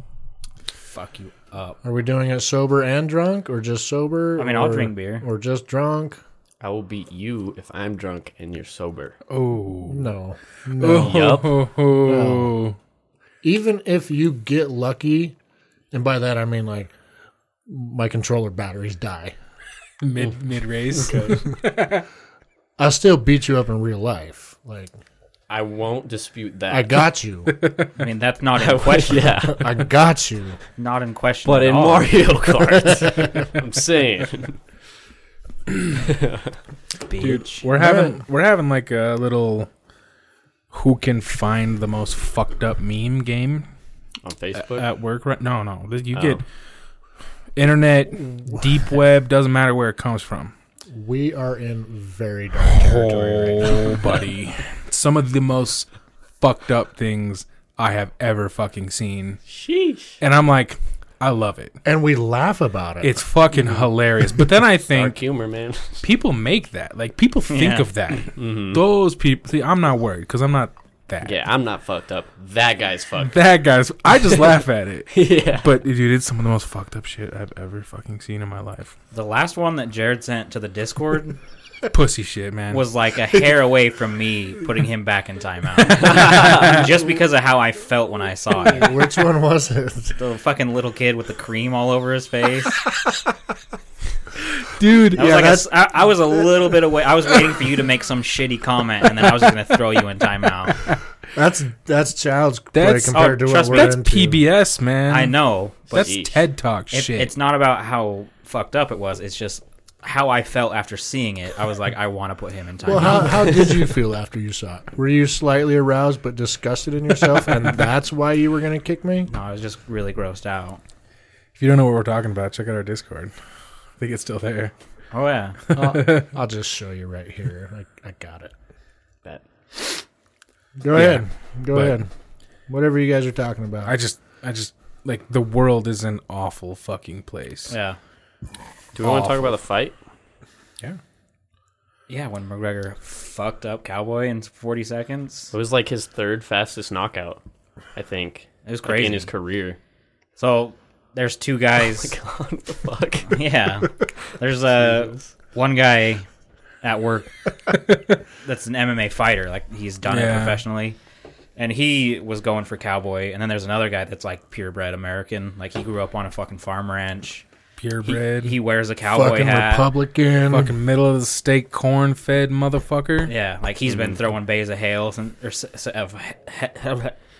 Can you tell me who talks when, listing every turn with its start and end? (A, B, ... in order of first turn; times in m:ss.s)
0:00.9-0:01.8 A
0:01.8-0:06.2 B
0:04.4-0:05.2 A
0:06.6-0:09.2 C
0:09.3-0:10.0 D
0:09.9-0:12.6 B
0:10.8-0:12.8 D
0:10.9-0:11.5 C
0:13.4-0:15.3 B
0:15.9-0:16.9 B
0:17.7-0:19.3 B
0:20.0-0:22.0 D
0:22.8-0:24.9 B
0:25.5-0:27.0 C
0:26.7-0:27.6 B
0:27.5-0:27.9 D
0:28.0-0:29.4 A
0:28.6-0:29.8 C
0:29.5-0:30.6 B
0:30.8-0:32.2 A
0:31.4-0:34.6 C
0:36.0-0:36.6 C
0:37.0-0:37.7 A
0:37.2-0:39.7 D
0:37.8-0:38.1 B
0:40.7-0:43.7 D
0:44.2-0:44.9 C
0:44.5-0:46.4 D
0:46.1-0:46.4 C
0:47.6-0:50.5 D
0:50.9-0:54.0 B
0:52.7-0:59.4 D
0:59.5-1:00.2 C
1:00.2-1:01.8 D
1:01.8-1:03.2 B
1:03.0-1:05.2 D
1:03.5-1:03.9 C
1:04.9-1:06.0 C
1:06.0-1:11.4 D
1:07.5-1:07.9 A
1:08.3-1:08.8 C
1:11.2-1:13.4 C
1:13.3-1:18.9 D
1:15.1-1:15.7 C
1:19.1-1:21.4 A
1:21.9-1:22.8 D
1:22.7-1:29.0 A
1:26.3-1:26.7 D
1:28.6-1:30.1 B
1:30.2-1:32.8 A
1:34.6-1:35.5 D
1:35.2-1:35.7 B
1:35.2-1:40.9 A
1:41.3-1:44.4 B
1:42.7-1:45.4 D
1:43.1-1:44.0 A
1:45.1-1:46.1 A
1:45.9-1:47.3 D
1:46.0-1:46.3 C
1:46.9-1:53.5 A
1:52.8-1:59.3 B
1:59.3-2:00.8 A
2:01.5-2:03.3 D
2:04.0-2:04.7 D
2:05.1-2:05.6 A
2:05.7-2:06.3 D
2:05.7-2:08.5 B
2:10.8-2:12.1 B
2:10.9-2:12.0 D
2:12.7-2:14.0 B
2:13.8-2:17.7 D
2:17.7-2:18.0 A
2:18.9-2:19.9 C
2:22.1-2:25.5 A
2:25.5-2:27.4 C
2:27.9-2:29.8 C
2:28.6-2:29.3 A
2:30.4-2:32.1 A
2:32.0-2:33.4 C
2:33.3-2:36.3 A
2:34.8-2:35.3 C
2:36.8-2:37.3 A
2:38.4-2:41.0 A
2:40.0-2:40.6 D
2:41.6-2:47.4 A
2:47.8-2:48.5 D
2:48.0-2:49.9 A
2:49.1-2:50.7 B
2:50.5-2:53.3 D
2:53.2-2:57.1 A
2:53.9-2:54.1 C